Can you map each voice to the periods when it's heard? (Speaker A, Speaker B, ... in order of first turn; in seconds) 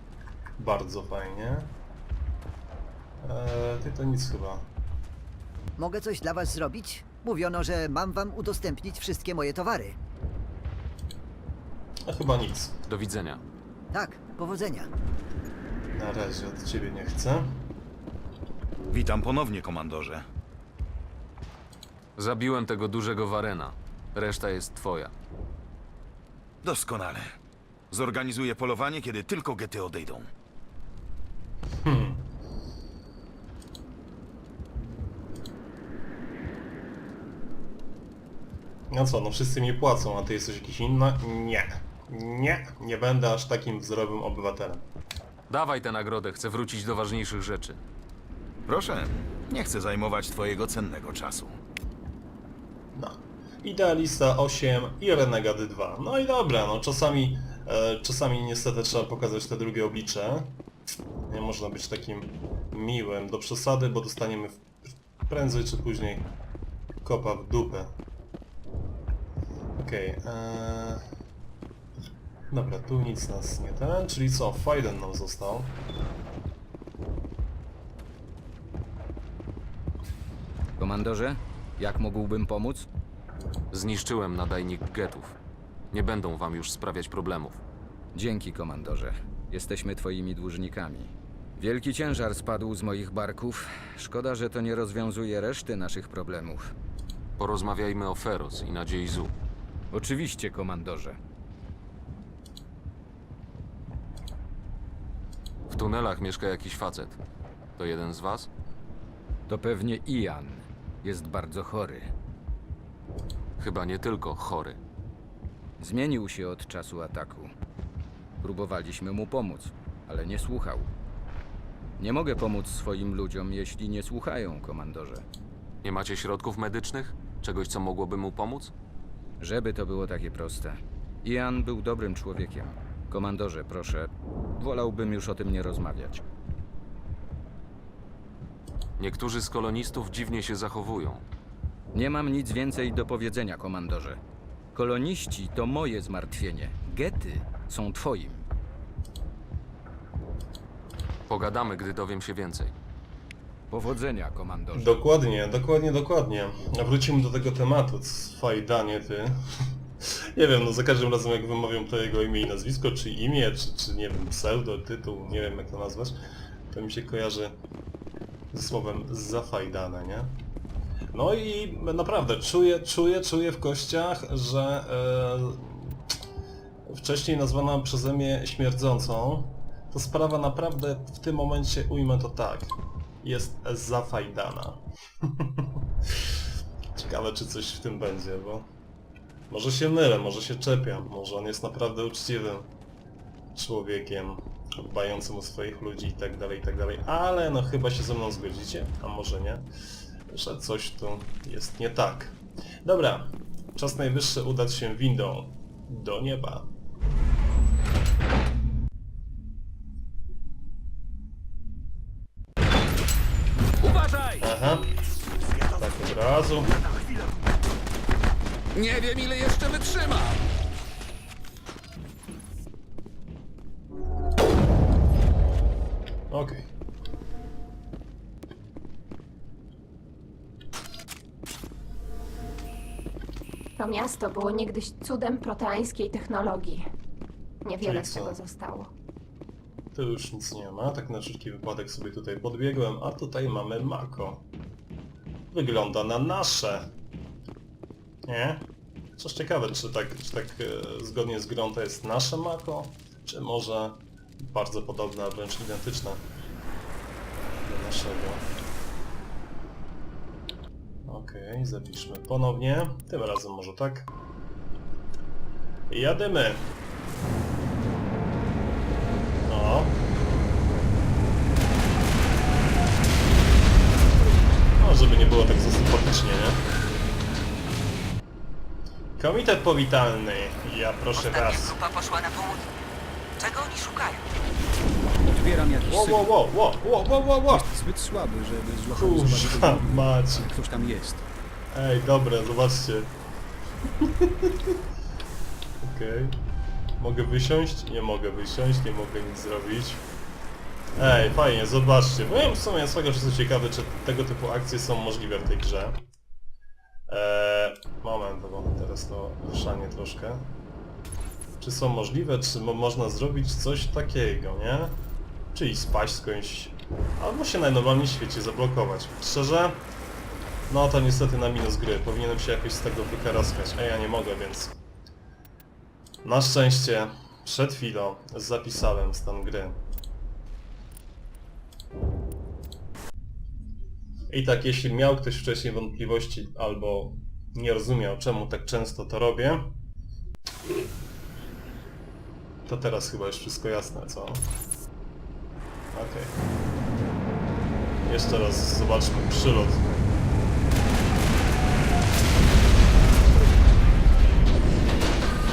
Speaker A: 0.6-1.7, 3.2-4.7, 12.0-12.8, 15.9-17.6, 31.8-32.3, 38.9-44.8, 52.9-60.6, 61.3-66.3, 67.0-67.9, 69.8-71.0, 72.5-75.8, 154.7-159.4, 160.0-166.2, 166.7-167.6, 168.5-170.3, 171.1-176.0, 176.9-186.3, 186.9-188.7, 189.5-192.7, 193.5-199.7, 200.3-206.7, 214.4-214.9, 215.8-216.7, 226.3-226.7, 237.8-238.4, 239.9-244.4, 245.5-246.9, 248.2-256.2, 257.6-258.4, 261.0-264.1, 265.9-266.7, 269.4-270.0, 274.8-276.6, 279.2-281.8, 285.8-287.7, 288.9-290.5, 291.7-293.1, 294.0-294.7, 295.8-296.4, 297.0-300.1, 301.0-306.0, 307.1-310.5, 311.6-315.0, 315.5-319.9, 320.7-324.8, 326.2-329.8, 334.3-339.8, 342.7-344.5, 345.9-346.3, 348.0-349.8
Speaker B: 5.8-9.9, 13.9-14.9
Speaker C: 12.9-13.4, 22.2-25.1, 45.5-47.8, 83.7-85.3, 85.9-87.6, 97.4-99.3, 105.7-107.2, 107.8-108.5, 113.6-114.8, 125.8-128.7, 139.0-141.2, 151.3-152.7
Speaker D: 18.9-20.2, 26.6-27.3, 27.9-30.3, 48.7-51.6
Speaker E: 80.8-82.9, 88.1-96.7, 99.9-101.2, 109.5-112.1, 115.8-117.5, 118.4-120.9, 122.0-125.2, 129.4-136.2, 141.9-144.2, 144.7-148.4, 153.7-155.0
Speaker F: 233.8-236.8, 237.6-238.9
Speaker G: 281.1-282.7, 283.4-284.2
Speaker H: 285.3-286.4, 287.5-291.2